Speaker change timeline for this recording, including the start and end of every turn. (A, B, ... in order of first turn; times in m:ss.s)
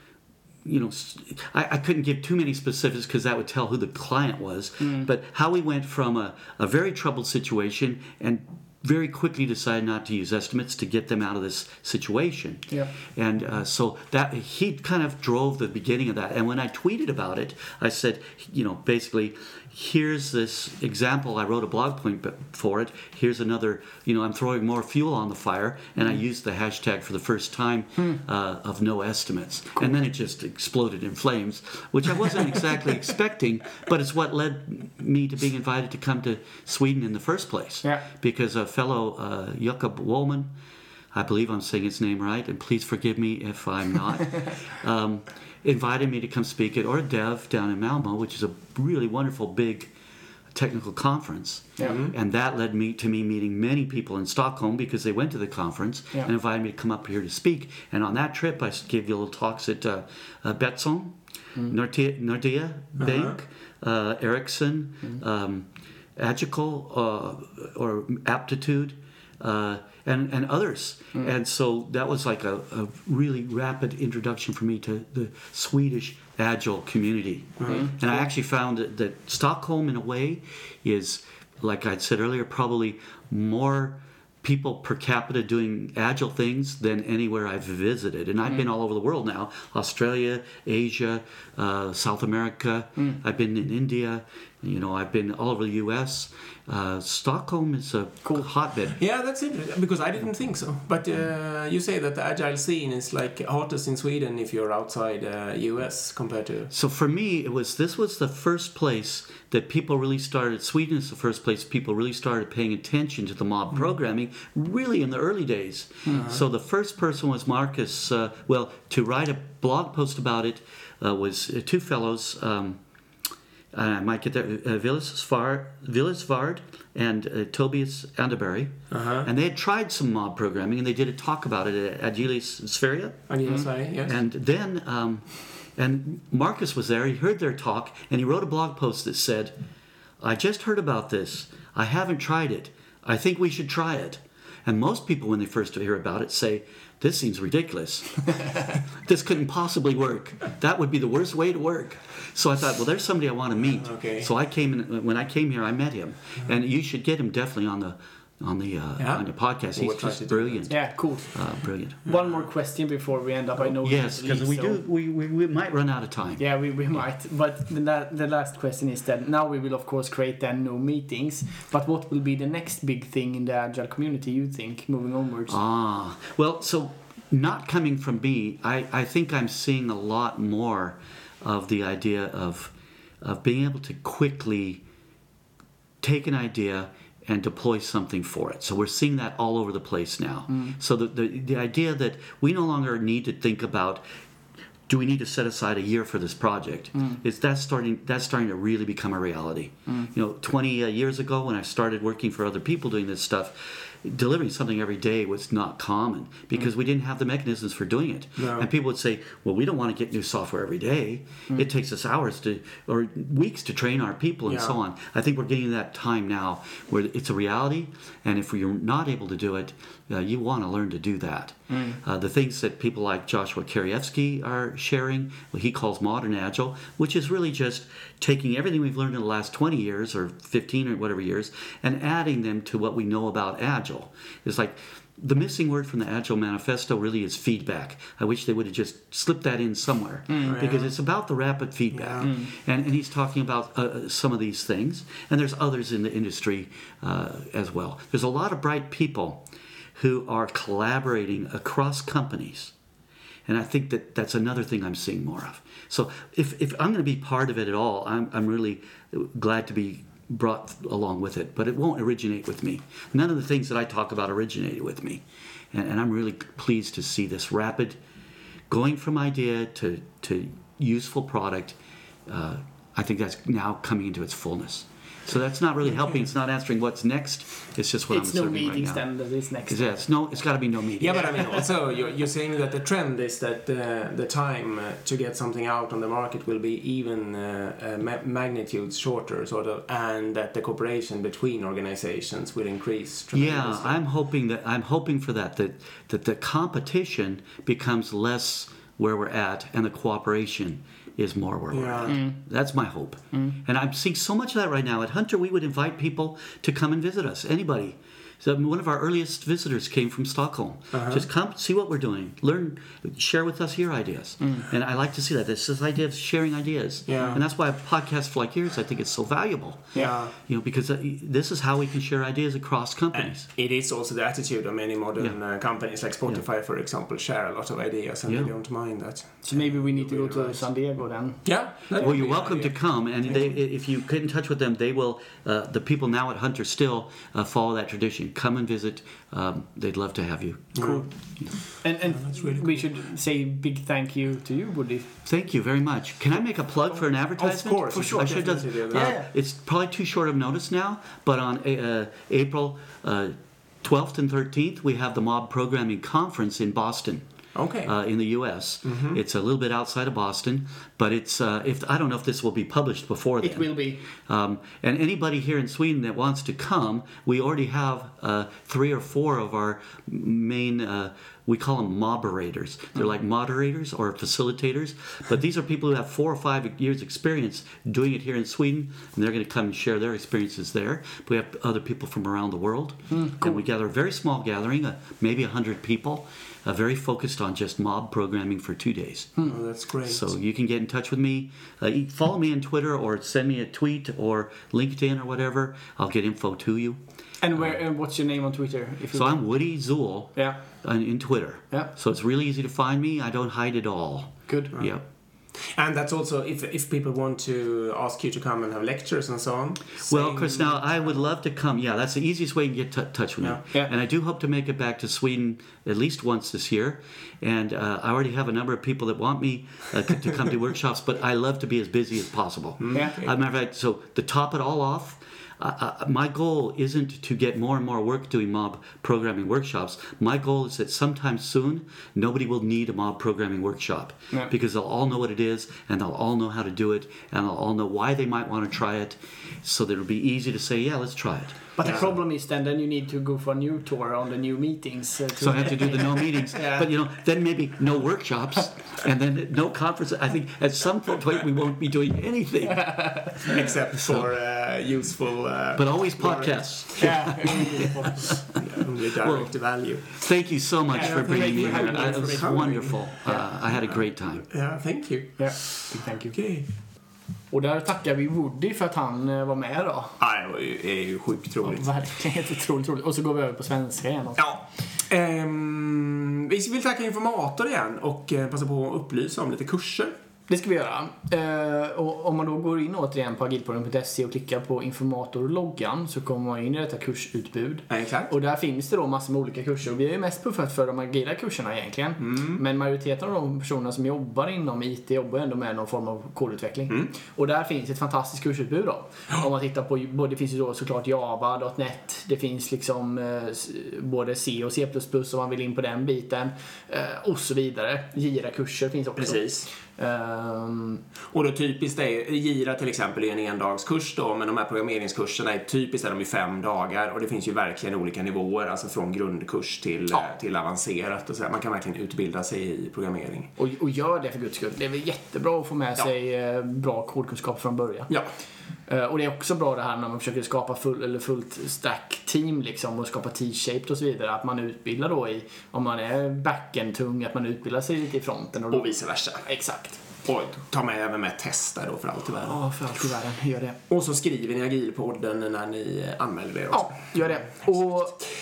0:00.6-0:40.5 A
0:04.8-0:05.1 B
0:41.1-0:49.9 A
0:50.5-1:39.0 A
0:51.8-0:52.1 C
1:03.0-1:03.4 C
1:17.6-1:18.1 C
1:17.7-1:18.0 B
1:39.0-1:46.7 C
1:46.7-2:02.8 A
1:56.1-1:56.4 C
2:03.7-2:13.4 A
2:08.9-2:09.3 C
2:13.3-2:14.2 C
2:14.0-2:19.6 A
2:20.2-2:42.0 A
2:33.7-2:34.3 C
2:39.0-2:40.7 C
2:40.7-2:44.8 B
2:43.7-2:46.4 A
2:46.4-2:55.6 B
2:55.5-3:04.8 A
3:06.0-3:14.0 A
3:10.5-3:10.8 B
3:14.9-4:12.7 A
3:28.4-3:28.7 C
3:34.5-3:34.8 C
3:41.7-3:42.0 B
4:00.3-4:00.6 B
4:00.4-4:00.9 C
4:01.9-4:02.3 C
4:02.2-4:02.5 B
4:13.5-4:28.0 A
4:28.7-4:39.0 A
4:38.1-4:40.0 B
4:39.7-4:41.6 A
4:41.0-4:54.0 C
4:53.3-5:23.5 A
5:01.7-5:02.2 C
5:02.1-5:02.4 B
5:10.9-5:11.2 C
5:14.4-5:14.7 B
5:17.1-5:17.4 C
5:19.9-5:20.3 C
5:23.1-5:30.7 C
5:28.2-5:28.5 A
5:29.4-5:31.4 B
5:31.4-5:33.4 C
5:32.0-5:41.0 A
5:40.7-5:42.8 C
5:40.8-5:45.1 B
5:45.2-5:57.2 A
5:47.4-5:49.1 C
5:48.9-5:49.3 B
5:57.5-5:57.9 C
5:57.8-6:29.4 A
5:58.8-5:59.2 C
6:03.4-6:04.0 B
6:23.1-6:23.6 B
6:29.4-6:30.2 C
6:30.1-6:37.0 A
6:37.4-6:39.4 B
6:39.1-6:45.0 A
6:44.5-6:44.7 B
6:44.7-6:51.3 C
6:50.0-7:22.2 A
7:02.8-7:03.3 C
7:21.8-7:26.9 B
7:25.4-7:33.4 A
7:32.7-7:33.5 B
7:33.4-7:40.2 C
7:33.9-7:34.3 A
7:35.7-7:38.6 A
7:37.0-7:38.4 B
7:39.1-7:44.4 A
7:40.9-7:43.5 B
7:40.9-7:43.2 C
7:43.7-7:46.7 C
7:45.4-7:46.4 B
7:47.5-7:50.2 B
7:50.2-7:52.0 C
7:51.6-7:54.4 B
7:54.4-8:00.1 C
8:00.5-8:31.0 B
8:07.9-8:08.3 C
8:12.2-8:12.6 C
8:29.2-8:29.7 C
8:31.3-8:43.5 C
8:43.6-8:48.1 B
8:48.9-9:00.0 B
8:58.7-8:59.5 C
9:00.2-9:02.7 C
9:02.4-9:03.8 B
9:03.9-9:07.5 C
9:06.7-9:08.2 B